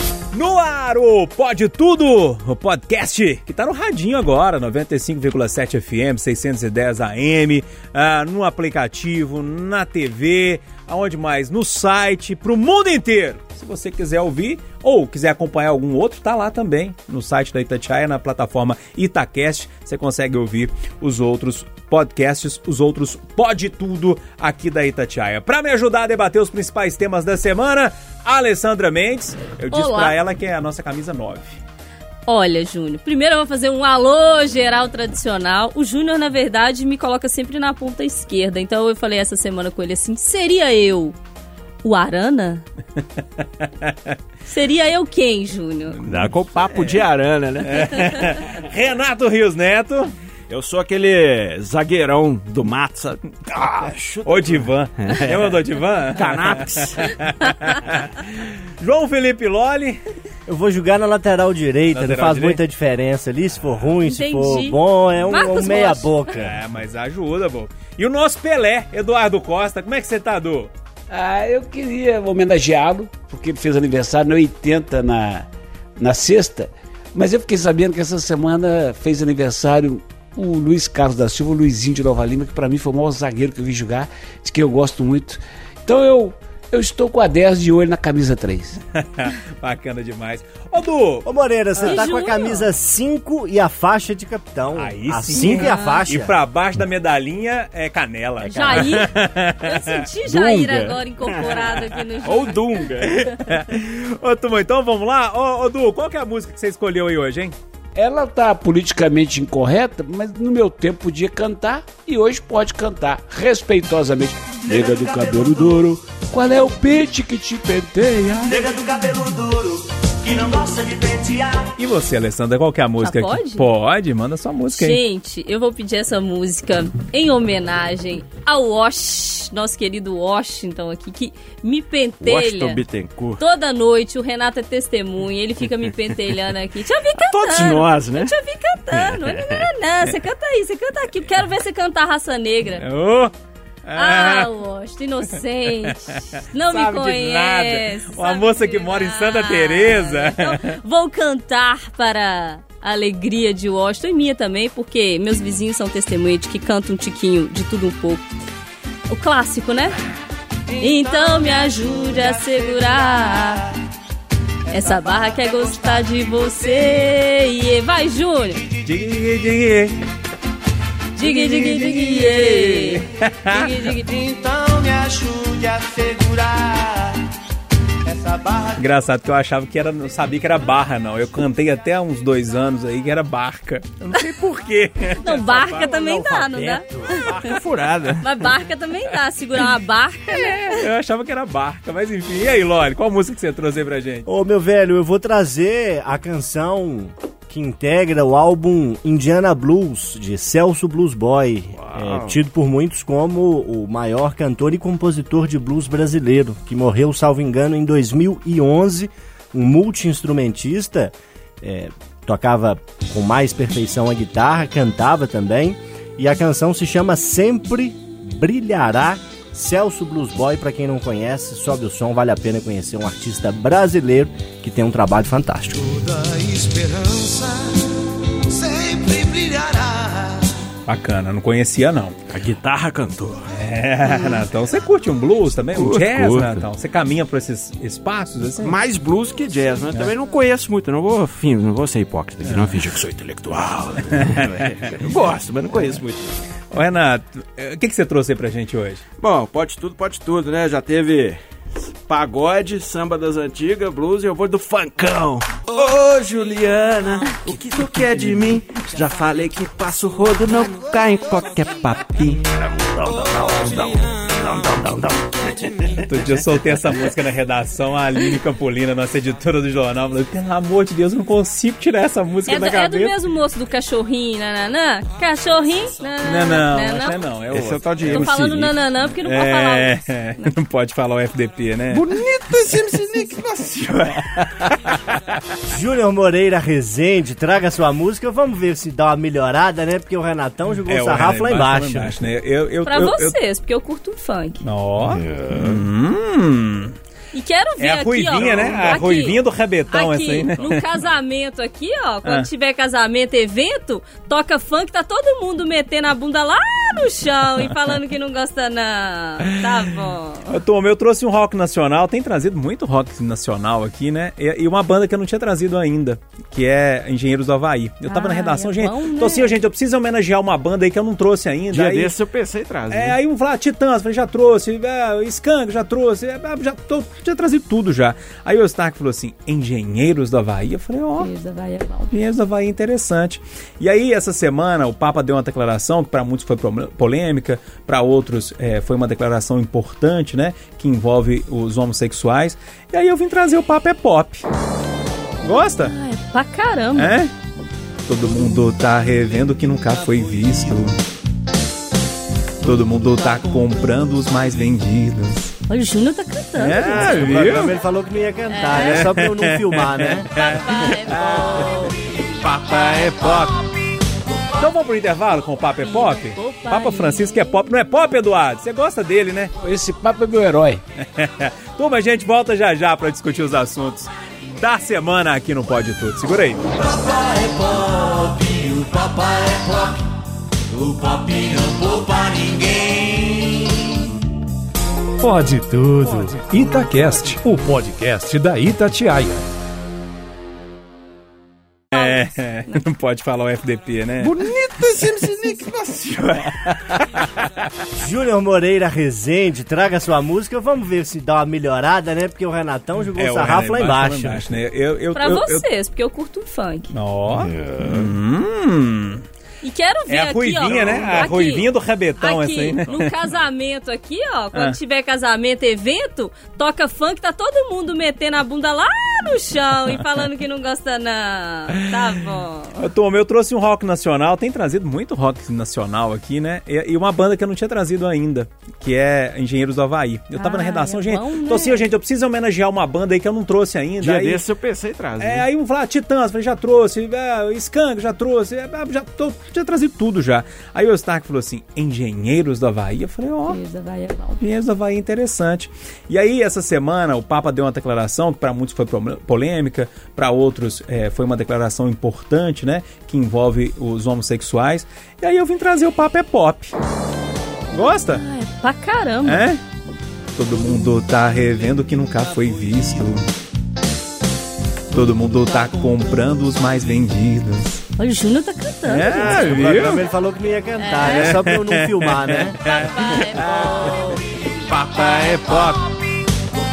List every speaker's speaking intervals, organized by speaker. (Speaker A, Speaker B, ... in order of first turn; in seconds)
Speaker A: 0.3-31.6, 43.6-43.9, 46.0-47.0, 47.6-50.1, 54.2-60.0, 61.9-62.6, 66.3-70.7, 88.9-91.2, 94.7-100.0, 103.2-107.5, 121.8-125.0, 142.8-143.3, 143.9-144.5, 145.8-150.8, 168.8-170.0, 171.2-174.0, 178.7-186.8, 190.3-194.3, 230.8-232.2, 233.5-238.7, 244.1-244.9, 246.7-249.0, 265.9-273.1, 276.2-282.1, 284.3-285.4, 290.9-293.4, 294.6-296.9, 297.8-300.8, 310.5-322.1, 322.9-331.3, 332.1-344.4, 345.4-345.9, 346.9-347.3, 348.1-351.0, 352.6-355.5, 356.6-357.7, 358.8-363.9, 364.4-369.5, 371.0-376.9, 382.7-383.1, 391.9-394.3, 396.6-397.7, 403.1-405.6, 406.9-409.2, 410.1-413.1, 422.8-434.4, 435.2-443.6, 444.4-456.7, 457.7-458.2, 459.2-459.6, 460.3-463.3, 464.9-467.8, 468.9-470.0, 471.0-476.1
Speaker B: 29.7-30.2, 32.3-41.2, 41.8-42.6, 44.5-46.0, 64.0-66.1, 91.8-92.7, 95.3-96.0, 98.5-102.6, 123.0-123.7, 124.7-132.8, 133.4-142.8, 143.9-158.2, 159.1-159.9, 160.7-163.7, 164.7-168.7, 171.2-174.3, 185.2-187.4, 188.2-190.8, 272.5-277.2, 278.1-280.0, 292.8-294.6, 297.3-299.4, 299.9-310.6, 318.1-319.6, 331.2-332.1, 345.8-347.1, 355.7-357.1, 358.5-359.1, 360.3-362.1, 365.8-367.7, 405.1-406.9, 409.6-411.6, 412.2-422.9, 430.4-431.8, 443.5-444.4, 458.1-459.4, 468.0-469.3, 470.8-471.4, 472.5-474.3
Speaker C: 46.0-48.3, 50.5-57.1, 100.3-103.3, 132.2-133.4, 137.2-138.3, 138.9-139.6, 187.1-188.3, 201.8-202.4, 226.7-227.3, 232.3-233.5, 235.7-236.7, 238.6-246.4, 249.2-266.3, 277.5-278.7, 281.9-284.5, 295.2-295.8, 298.4-298.9, 321.7-323.2, 377.8-378.4, 394.2-397.0, 434.0-435.4
Speaker D: 60.5-66.6, 91.2-96.3, 98.4-99.0, 114.8-115.5, 118.4-121.7, 178.2-178.5, 194.3-226.1, 285.7-292.2, 356.8-360.3, 398.0-404.5, 469.0-472.6
Speaker E: 71.1-88.8, 107.9-118.6, 369.6-370.8
Speaker F: 385.2-389.4